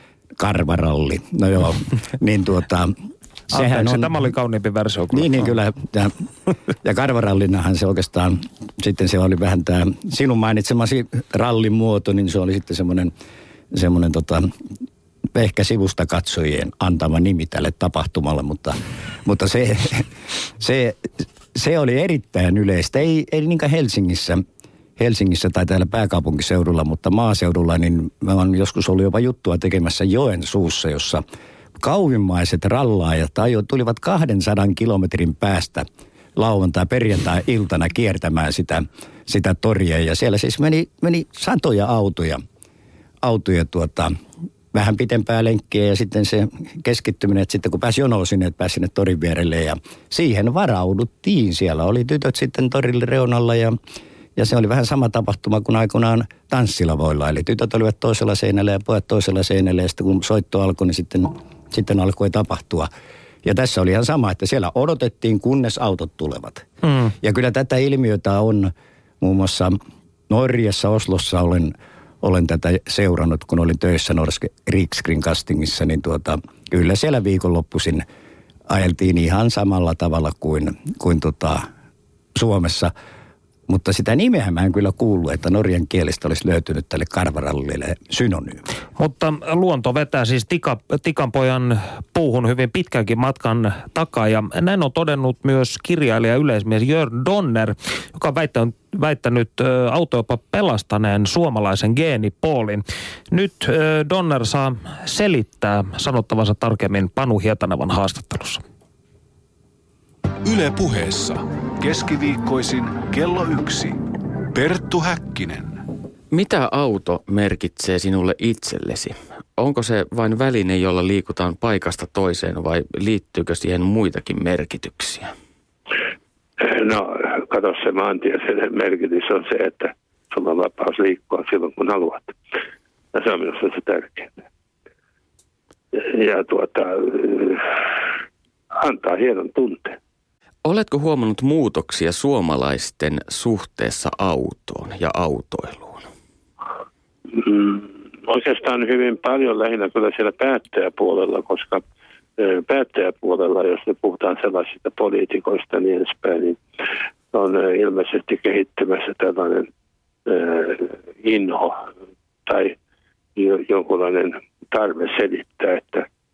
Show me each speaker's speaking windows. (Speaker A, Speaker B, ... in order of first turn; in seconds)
Speaker A: 0.4-2.9, 3.5-4.2, 5.1-6.3, 6.8-13.1, 13.7-14.5, 15.3-24.4, 25.0-31.2, 31.8-42.4, 43.2-44.1, 44.7-53.8, 54.4-62.9, 63.4-66.7, 67.2-69.8, 70.3-78.0, 78.7-81.7, 82.3-82.9, 83.7-88.6
Speaker B: 3.5-5.5, 66.8-67.1, 89.0-108.6
Speaker C: 110.4-114.0, 114.5-115.8
Speaker D: 116.3-125.3, 140.6-146.1
Speaker E: 126.6-132.3, 133.1-134.3, 135.9-137.7, 138.8-140.0, 147.3-151.8, 152.4-156.6, 157.3-159.7, 160.3-161.9, 162.4-162.8, 163.4-166.1